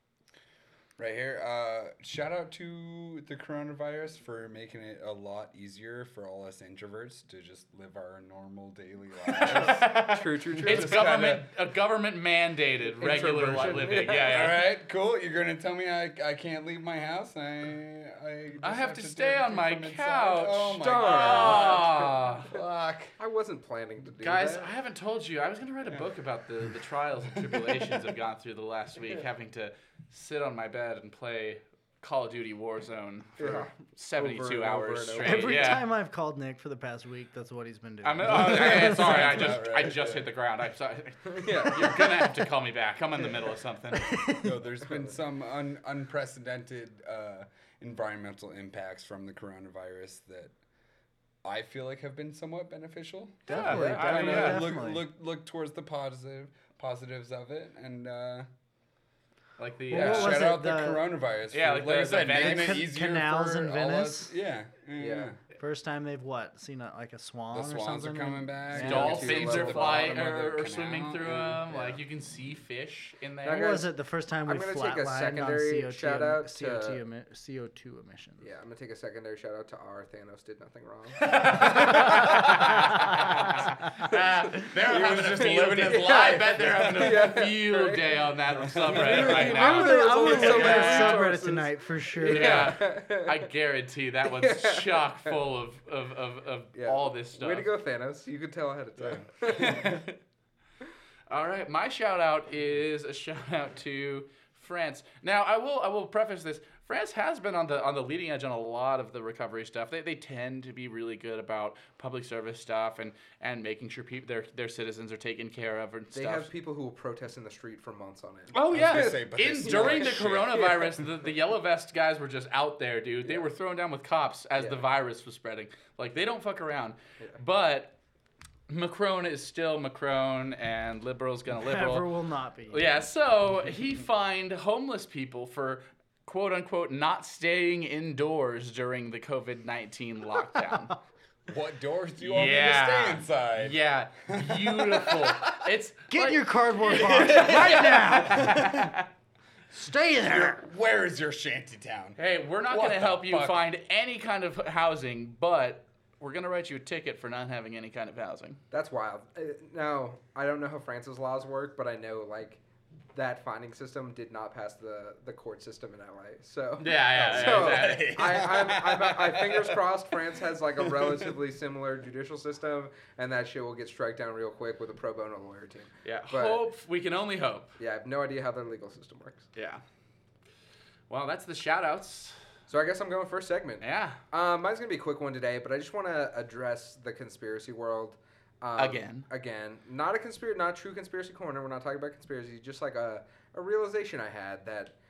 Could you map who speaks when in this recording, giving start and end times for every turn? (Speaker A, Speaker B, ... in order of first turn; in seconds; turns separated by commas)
Speaker A: 1.0-11.5, Speaker B: 9.3-14.7, Speaker C: 9.5-11.3, Speaker C: 13.0-14.5, Speaker A: 13.9-23.1, Speaker B: 18.6-22.5, Speaker C: 20.8-22.3, Speaker C: 23.2-24.7, Speaker B: 24.2-35.9, Speaker A: 27.4-27.7, Speaker C: 33.4-35.7, Speaker D: 35.2-39.6, Speaker B: 38.0-44.2, Speaker A: 38.2-40.3, Speaker C: 41.3-42.3, Speaker D: 44.0-44.5, Speaker A: 44.4-50.5, Speaker A: 51.4-58.5, Speaker D: 53.5-55.0, Speaker B: 53.5-54.6, Speaker B: 59.6-60.5, Speaker D: 59.9-61.1, Speaker A: 59.9-65.4, Speaker B: 61.5-62.8, Speaker D: 62.3-64.3, Speaker C: 65.0-65.3, Speaker D: 65.6-69.1, Speaker A: 67.5-72.0, Speaker C: 68.8-70.1, Speaker B: 68.8-73.7, Speaker C: 73.4-73.9, Speaker D: 73.5-78.4, Speaker C: 74.5-77.0, Speaker C: 78.4-83.0, Speaker B: 81.2-91.3, Speaker A: 81.7-82.3, Speaker A: 84.6-87.3, Speaker C: 85.5-93.4, Speaker A: 88.6-89.7, Speaker D: 89.5-92.7, Speaker B: 92.2-97.7, Speaker C: 94.2-95.3, Speaker C: 96.8-100.0, Speaker B: 99.5-100.2, Speaker B: 101.3-116.5, Speaker C: 116.1-120.9, Speaker B: 118.5-128.0, Speaker A: 118.7-120.7, Speaker C: 124.6-124.8, Speaker B: 128.7-132.1, Speaker D: 131.5-132.9, Speaker B: 132.7-140.9, Speaker A: 141.5-145.7, Speaker B: 142.2-149.1, Speaker D: 146.1-148.9, Speaker A: 146.9-148.9, Speaker D: 149.7-150.7, Speaker A: 150.3-153.6, Speaker B: 152.2-158.6, Speaker C: 158.7-162.6, Speaker C: 163.1-176.6, Speaker B: 166.8-168.7, Speaker A: 167.1-170.0, Speaker A: 170.8-171.3, Speaker B: 176.1-177.7, Speaker C: 177.8-179.4, Speaker B: 179.6-179.8, Speaker B: 181.1-182.4, Speaker C: 182.7-195.0, Speaker B: 183.8-184.2, Speaker B: 188.8-189.3